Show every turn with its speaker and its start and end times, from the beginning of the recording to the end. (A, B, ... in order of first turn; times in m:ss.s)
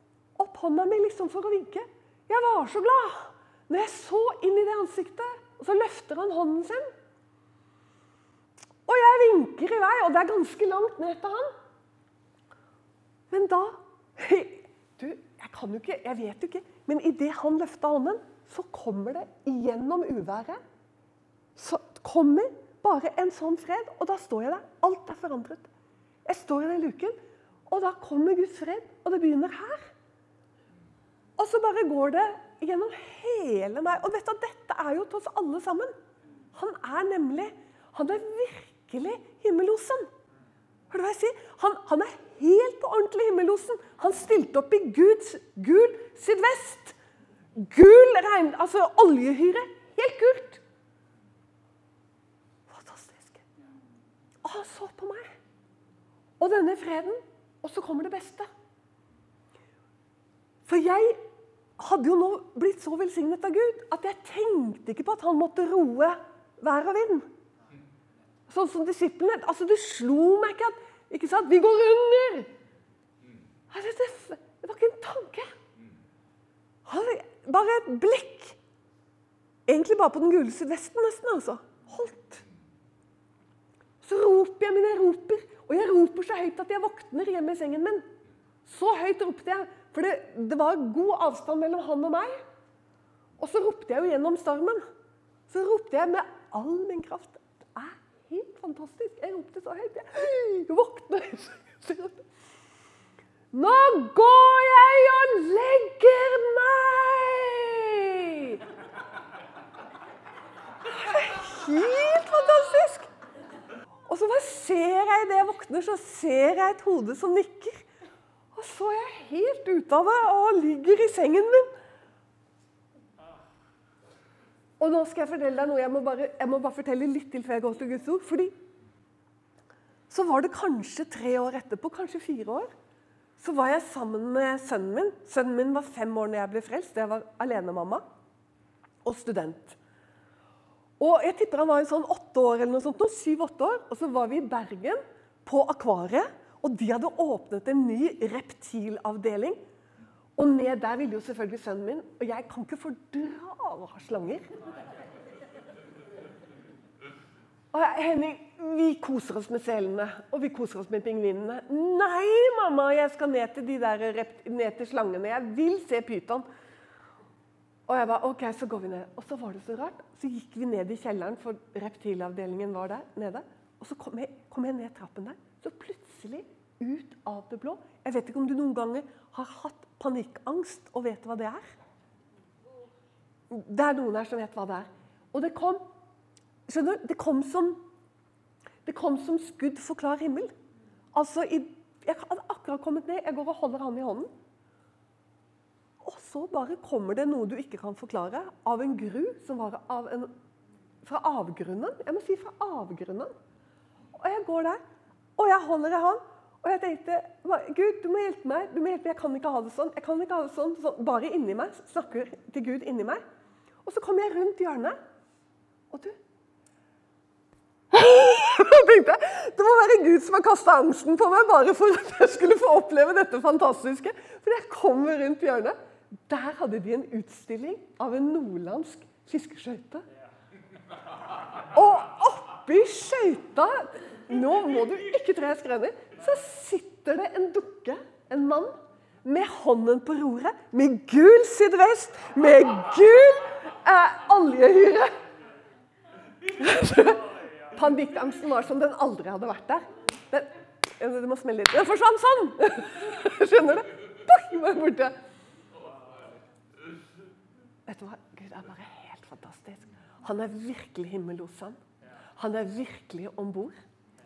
0:00.4-0:06.8 A
0:08.8-0:11.5 A
0:13.3-0:20.6 A
0:21.6-0:25.7 A
0:26.2-0:27.2 A
0:27.7-0:29.9 A
0:31.4-0:35.9 A
0:36.5-0:40.1 A
0:40.9-0:47.0 A
0:47.5-0:50.6 A
0:52.7-0:53.4 A
0:54.4-0:55.3 A
0:56.4-0:58.5 A
1:00.7-1:01.2 A
1:01.8-1:07.3 A
1:08.5-1:12.5 A
1:13.7-1:15.6 A
1:16.8-1:18.6 A
1:19.7-1:22.4 A
1:24.0-1:28.0 A
1:28.6-1:32.4 A
1:33.4-1:34.8 A
1:35.5-1:42.2 A
1:43.5-1:48.6 A
1:50.8-1:53.1 A
1:54.1-1:57.9 A
1:58.5-2:01.7 A
2:04.8-2:08.5 A
2:10.1-2:12.7 A
2:13.4-2:18.0 A
2:19.0-2:19.8 A
2:21.0-2:29.6 A
2:30.4-2:34.5 A
2:37.7-2:46.4 A
2:47.9-3:01.7 A
3:03.5-3:05.8 A
3:06.7-3:07.8 A
3:08.8-3:10.5 A
3:11.1-3:14.3 A
3:16.0-3:20.3 A
3:21.0-3:23.3 A
3:24.2-3:24.8 A
3:25.4-3:33.2 A
3:33.8-3:35.0 A
3:35.9-3:36.2 A
3:37.9-3:45.8 A
3:46.3-3:50.0 A
3:51.6-4:05.2 A
4:06.4-4:15.2 A
4:17.9-4:21.8 A
4:22.4-4:23.8 A